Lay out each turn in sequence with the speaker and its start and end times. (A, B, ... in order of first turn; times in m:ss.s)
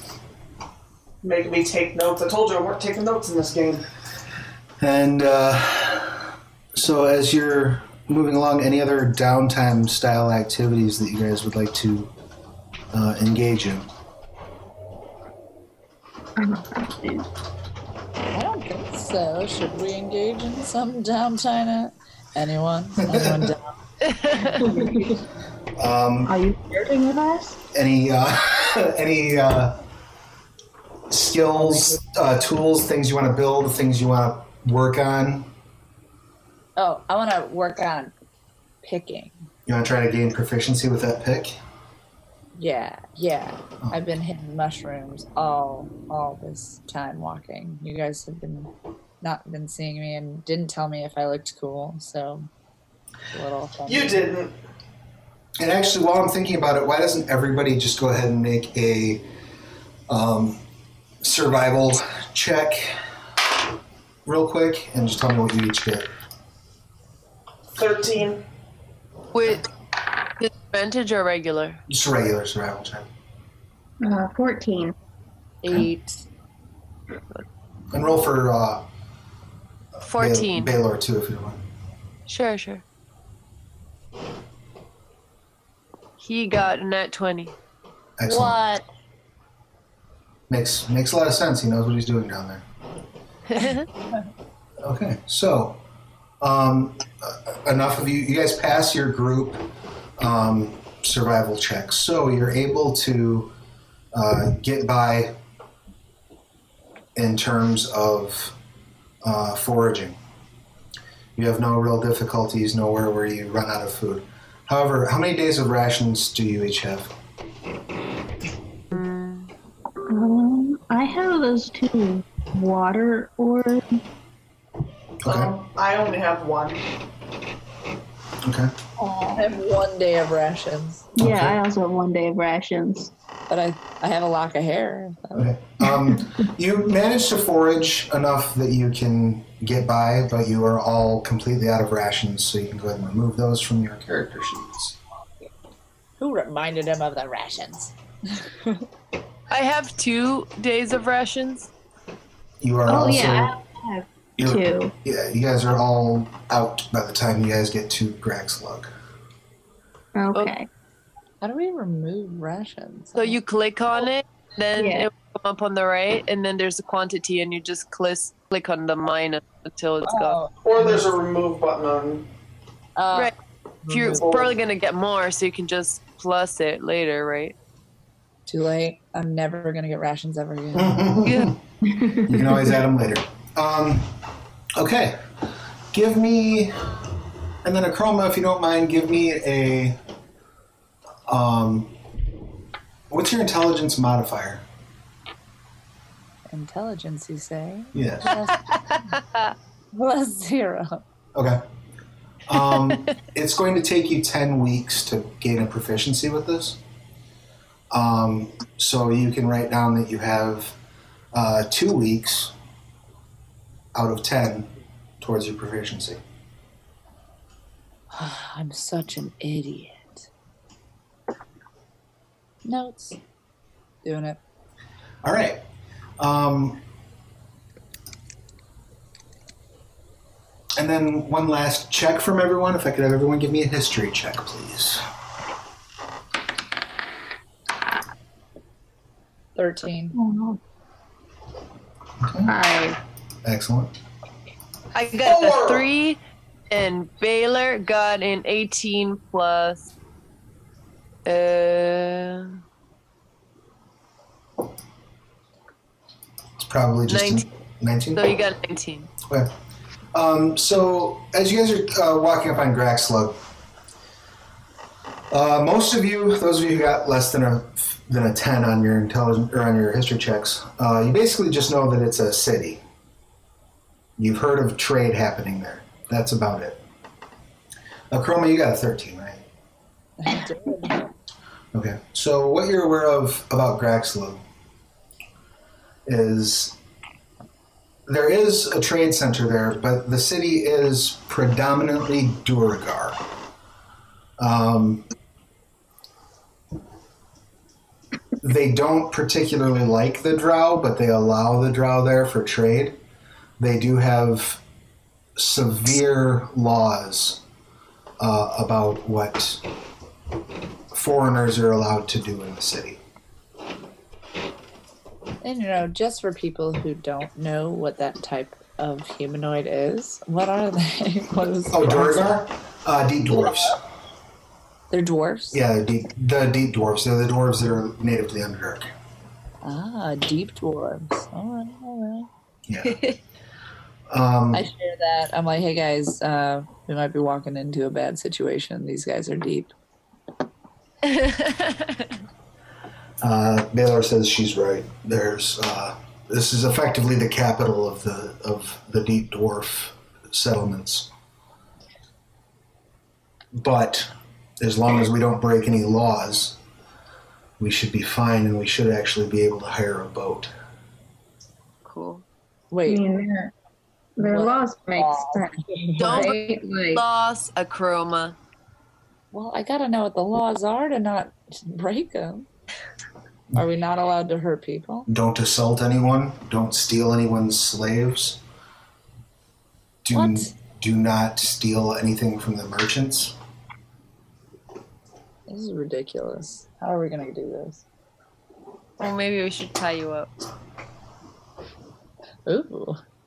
0:01.2-0:03.9 A
0:04.8-0:12.1 B
0:12.9-0:13.9 B
0:16.4-0:17.3 C
0:18.3-0:23.7 D
0:23.0-0:23.5 B
0:24.0-0:24.6 E
0:24.6-0:25.2 C
0:25.8-0:26.3 B
0:26.3-0:27.6 C
0:27.7-0:29.8 B
0:31.1-0:35.5 B
0:36.8-0:38.1 D
0:38.8-0:39.4 D
0:39.7-0:41.6 B
0:42.6-0:52.5 D
0:53.3-0:54.3 D
0:53.9-0:54.5 A
0:55.6-0:59.3 B
1:00.1-1:00.6 B
1:01.2-1:03.0 B
1:04.3-1:06.1 B
1:07.8-1:08.4 A
1:09.3-1:09.7 E
1:10.4-1:11.8 E
1:11.9-1:13.1 B
1:14.0-1:14.9 C
1:15.6-1:16.2 D
1:17.9-1:18.9 B
1:20.0-1:21.6 B
1:20.1-1:20.8 E
1:22.3-1:22.8 E
1:26.2-1:27.6 E
1:28.2-1:28.6 B
1:28.3-1:28.8 D
1:30.5-1:32.6 B
1:33.5-1:33.9 E
1:34.8-1:35.8 B
1:36.4-1:43.5 B
1:44.1-1:45.4 B
1:47.2-1:48.6 B
1:49.2-1:50.2 B
1:51.4-1:57.1 B
1:58.9-1:59.5 E
2:00.1-2:04.0 C
2:05.2-2:05.5 B
2:05.2-2:06.9 A
2:08.4-2:08.7 B
2:09.0-2:11.1 D
2:11.2-2:11.6 B
2:11.2-2:13.1 C
2:13.5-2:15.5 D
2:15.3-2:25.0 B
2:26.2-2:28.8 D
2:29.5-2:31.7 E
2:32.6-2:33.5 B
2:32.9-2:34.9 C
2:34.4-2:38.9 B
2:40.2-2:40.7 C
2:41.4-2:43.4 D
2:43.2-2:50.4 E
2:44.8-2:45.1 C
2:50.1-2:51.1 D
2:50.6-2:52.3 A
2:53.0-2:53.3 D
2:53.8-2:54.4 D
2:53.9-2:57.6 E
2:54.1-2:54.5 A
2:58.5-3:01.2 D
3:00.7-3:01.6 B
3:01.2-3:01.5 E
3:01.8-3:02.7 C
3:02.2-3:04.1 B
3:04.8-3:05.2 B
3:05.9-3:06.9 B
3:07.6-3:10.0 B
3:11.3-3:11.9 B
3:13.1-3:14.6 B
3:16.5-3:19.2 D
3:17.9-3:18.3 B
3:19.9-3:21.0 D
3:21.4-3:21.6 B
3:22.5-3:26.8 B
3:27.9-3:30.8 B
3:31.3-3:32.5 B
3:33.9-3:34.7 B
3:35.2-3:36.2 B
3:38.1-3:40.3 D
3:42.6-3:43.2 D
3:44.0-3:44.4 D
3:45.2-3:45.6 B
3:46.2-3:46.8 B
3:50.8-3:55.0 B
3:59.6-4:00.2 D
4:00.2-4:00.6 C
4:02.2-4:02.6 B
4:02.4-4:03.0 C
4:03.4-4:03.9 B
4:04.9-4:09.9 E
4:05.2-4:05.8 A
4:11.3-4:12.6 E
4:16.6-4:18.3 B
4:17.1-4:17.4 E
4:18.1-4:19.1 E
4:19.3-4:19.5 B
4:20.1-4:23.4 B
4:25.3-4:32.8 B
4:34.2-4:36.8 B
4:38.1-4:39.4 B
4:40.2-4:41.1 D
4:41.7-4:44.4 B
4:46.1-4:46.8 B
4:48.1-4:53.2 B
4:54.4-4:55.1 B
4:58.4-5:03.0 B
5:03.6-5:04.6 B
5:05.4-5:07.4 B
5:08.2-5:09.6 B
5:10.9-5:13.0 B
5:15.4-5:22.4 D
5:21.7-5:23.8 B
5:23.3-5:23.8 D
5:24.9-5:25.6 D
5:25.5-5:28.9 B
5:29.6-5:32.3 D
5:32.7-5:33.0 B
5:32.9-5:33.2 E
5:34.1-5:34.6 B
5:34.5-5:39.7 D
5:41.0-5:42.1 E
5:43.2-5:51.1 B
5:53.5-5:56.6 B
5:57.6-6:00.5 B
6:01.8-6:02.2 E
6:02.7-6:03.0 D
6:02.9-6:03.5 C
6:04.2-6:07.0 C
6:04.2-6:06.2 D
6:06.0-6:06.4 E
6:06.9-6:08.4 E
6:09.3-6:12.5 D
6:13.6-6:15.1 D
6:15.1-6:18.4 B
6:20.0-6:23.4 B
6:20.1-6:20.5 D
6:25.5-6:27.8 D
6:29.0-6:30.3 E
6:32.4-6:33.0 D